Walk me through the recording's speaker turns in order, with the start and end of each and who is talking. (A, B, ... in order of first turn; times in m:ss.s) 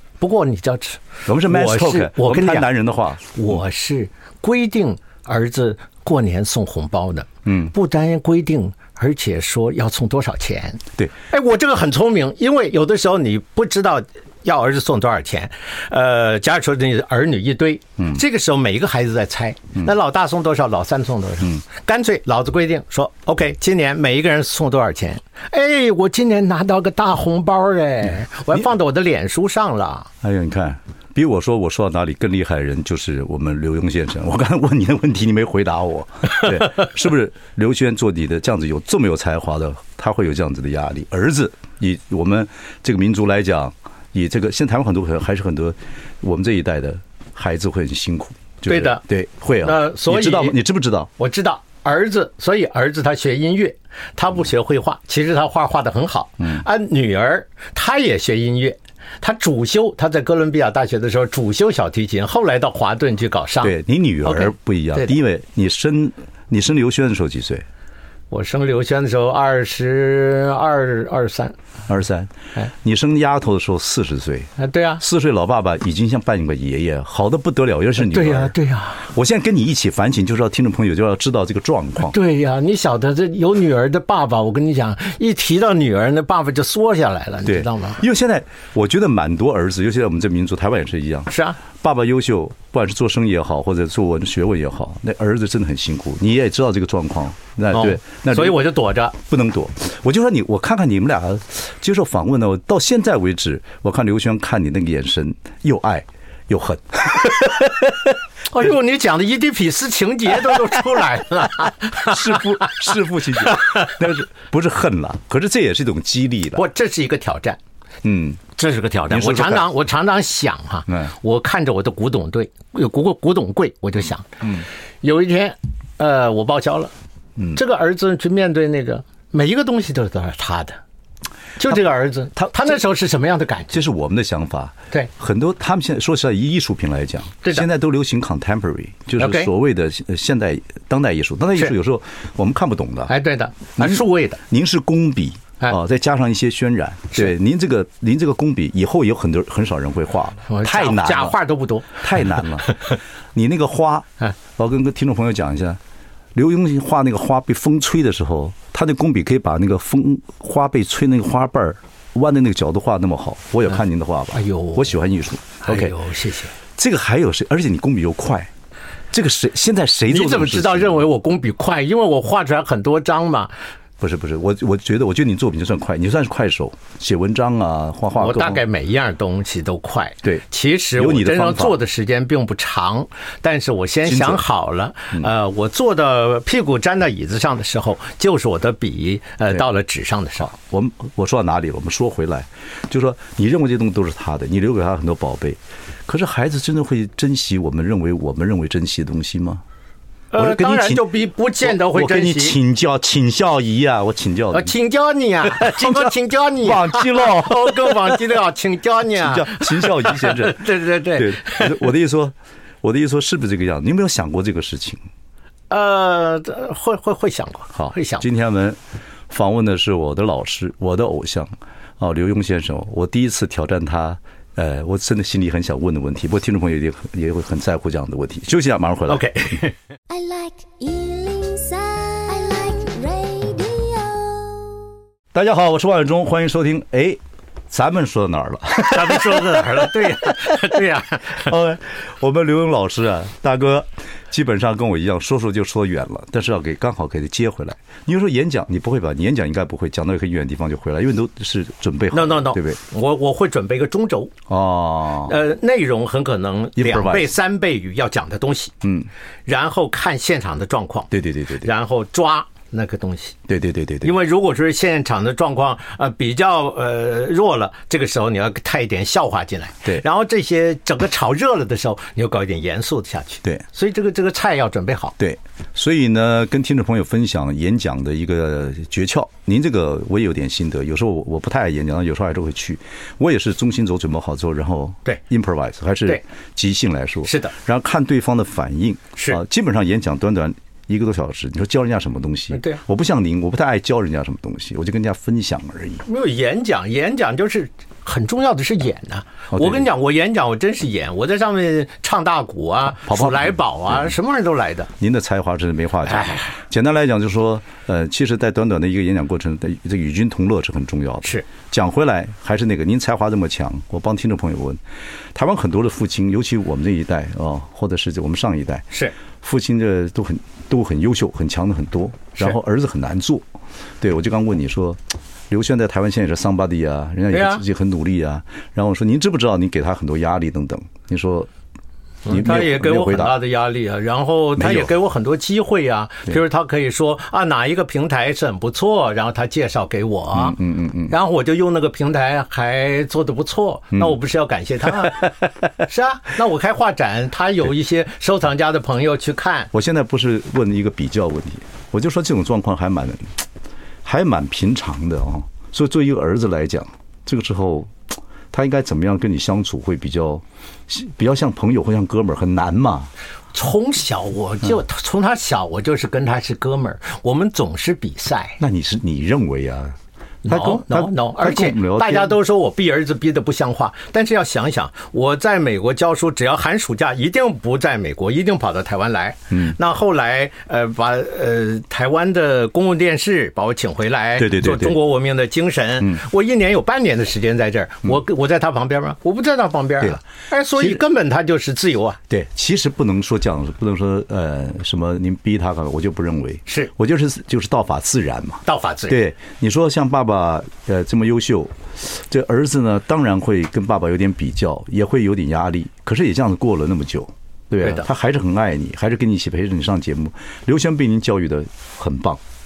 0:00.2-0:02.7 A
0:01.3-0:03.5 B
0:03.3-0:30.1 A
0:07.5-0:07.7 B
0:30.2-0:51.1 B
0:48.7-0:49.0 A
0:49.6-0:50.6 A
0:51.2-1:05.1 A
1:03.6-1:07.7 B
1:08.3-1:11.6 A
1:11.9-1:18.6 B
1:14.6-1:15.0 A
1:18.0-1:19.1 A
1:19.1-1:22.2 B
1:22.0-1:28.0 A
1:27.5-1:47.9 B
1:31.3-1:31.6 A
1:37.7-1:39.2 A
1:48.5-1:53.9 A
1:52.0-1:56.6 B
1:56.6-1:57.6 A
1:58.0-1:58.4 B
1:58.6-2:06.9 A
1:59.1-1:59.7 B
2:07.6-2:10.8 A
2:11.6-2:13.8 A
2:12.4-2:12.8 B
2:13.7-2:23.1 B
2:19.2-2:19.5 A
2:23.1-2:24.4 A
2:23.8-2:35.8 B
2:30.5-2:32.9 A
2:36.4-2:46.0 B
2:44.3-2:44.9 A
2:45.6-2:46.5 A
2:46.8-2:48.5 B
2:49.1-2:51.1 B
2:50.1-2:53.5 A
2:54.0-2:58.6 B
2:58.2-3:10.5 A
3:01.0-3:01.8 B
3:04.0-3:04.4 B
3:10.5-3:19.6 B
3:20.3-3:22.6 A
3:20.4-3:24.7 B
3:24.5-3:31.9 A
3:25.5-3:28.2 B
3:29.2-3:35.0 B
3:35.7-3:38.2 A
3:37.8-3:38.8 B
3:39.3-3:49.5 B
3:49.1-3:49.8 A
3:50.1-3:54.8 C
3:55.3-3:57.2 B
3:57.7-4:00.8 B
3:58.8-4:01.6 A
4:01.3-4:12.8 B
4:12.1-4:14.3 A
4:14.5-4:15.4 B
4:15.2-4:18.8 A
4:16.8-4:17.3 B
4:18.8-4:19.1 B
4:19.5-4:23.4 A
4:21.1-4:21.7 B
4:23.5-4:24.1 B
4:24.0-4:35.2 A
4:35.2-4:56.0 B
4:47.2-4:47.5 A
4:52.5-4:52.8 A
4:56.1-5:04.9 A
4:59.5-4:59.9 B
5:03.0-5:04.1 B
5:05.0-5:14.8 B
5:06.1-5:06.5 A
5:15.3-5:23.5 B
5:24.0-5:31.5 B
5:27.3-5:27.6 A
5:32.3-5:49.7 A
5:32.3-5:33.4 B
5:34.6-5:34.9 B
5:40.3-5:41.1 B
5:49.7-5:53.4 B
5:54.0-5:58.0 B
5:58.5-6:03.1 B
6:03.5-6:08.6 A
6:08.6-6:10.0 B
6:10.4-6:32.2 A
6:10.5-6:12.4 B
6:24.4-6:25.0 B
6:32.3-6:52.4 B
6:38.7-6:39.2 A
6:47.8-6:48.1 A